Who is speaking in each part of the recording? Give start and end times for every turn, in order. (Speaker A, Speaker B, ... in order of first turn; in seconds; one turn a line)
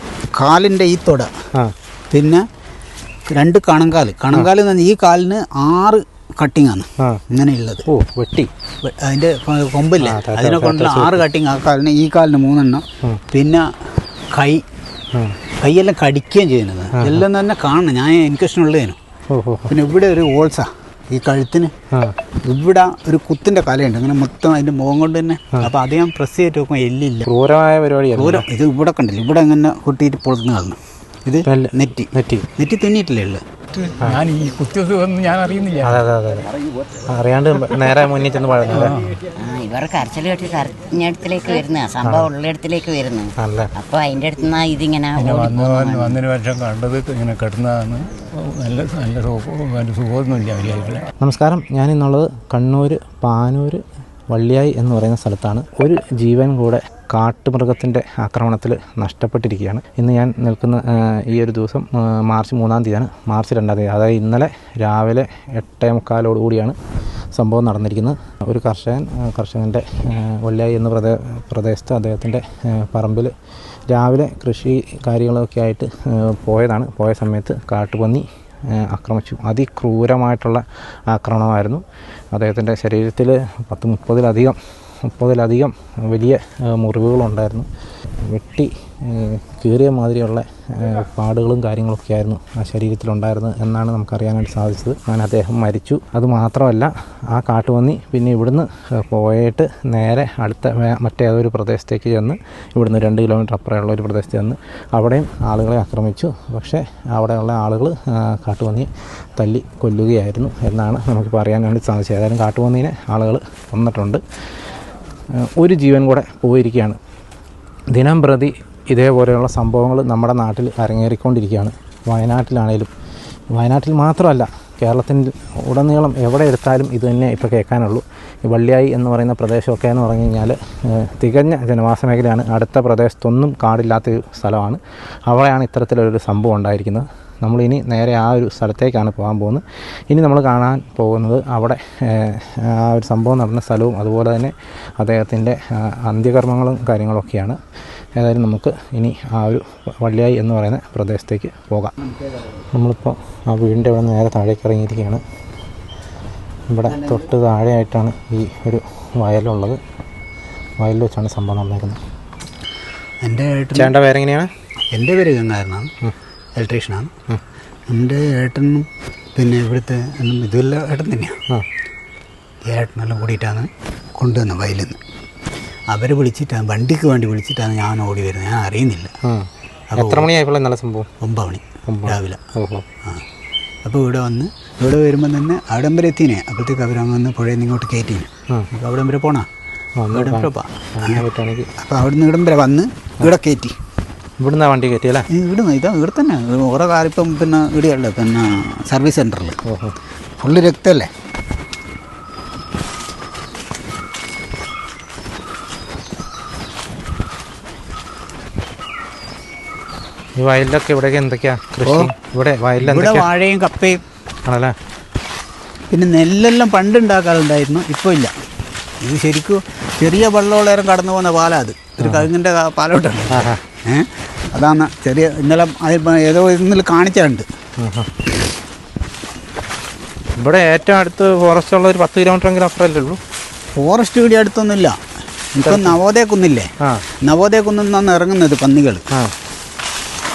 Speaker A: 0.3-1.3
Speaker A: 2.1-2.5
Speaker A: 3.3-7.8
Speaker B: 7.0-7.2
Speaker B: 7.9-8.5
Speaker A: 8.8-13.7
Speaker B: 10.0-11.2
Speaker A: 14.3-14.7
Speaker A: 15.6-19.0
Speaker B: 16.9-17.2
Speaker B: 19.3-19.7
Speaker A: 19.7-21.7
Speaker A: 22.4-27.3
Speaker B: 27.3-28.5
Speaker A: 28.2-33.4
Speaker B: 31.5-32.5
Speaker C: 33.7-36.0
Speaker B: 35.8-36.5
Speaker B: 37.1-39.0
Speaker C: 38.7-39.2
Speaker D: 39.4-46.2
Speaker B: 42.0-42.3
Speaker B: 43.4-43.7
Speaker C: 45.2-51.1
Speaker B: 51.2-66.8
Speaker B: 67.3-73.3
Speaker B: 73.9-114.2
Speaker B: 115.3-117.0
Speaker B: 117.9-122.9
Speaker B: 123.5-147.6
Speaker B: 148.2-151.9
Speaker B: 152.7-155.2
Speaker B: 156.7-159.8
Speaker B: 160.8-162.0
Speaker A: 163.2-163.9
Speaker B: 163.8-164.5
Speaker A: 164.9-165.9
Speaker A: 166.6-167.1
Speaker A: 167.9-171.4
Speaker A: 172.7-175.0
Speaker A: 175.9-179.1
Speaker B: 179.2-181.1
Speaker A: 179.9-180.3
Speaker A: 181.2-182.4
Speaker B: 181.9-182.8
Speaker A: 183.8-189.5
Speaker B: 190.0-191.7
Speaker A: 190.1-191.2
Speaker A: 191.8-193.8
Speaker B: 194.4-195.3
Speaker A: 195.3-199.6
Speaker B: 199.6-199.9
Speaker A: 200.4-201.1
Speaker B: 210.4-213.3
Speaker A: 211.8-212.1
Speaker A: 212.8-214.0
Speaker B: 214.5-214.8
Speaker A: 215.9-218.3
Speaker A: 219.0-227.5
Speaker B: 222.0-222.3
Speaker B: 223.3-223.6
Speaker B: 227.8-228.1
Speaker B: 230.4-233.2
Speaker A: 233.8-235.0
Speaker A: 235.6-239.0
Speaker B: 235.6-236.0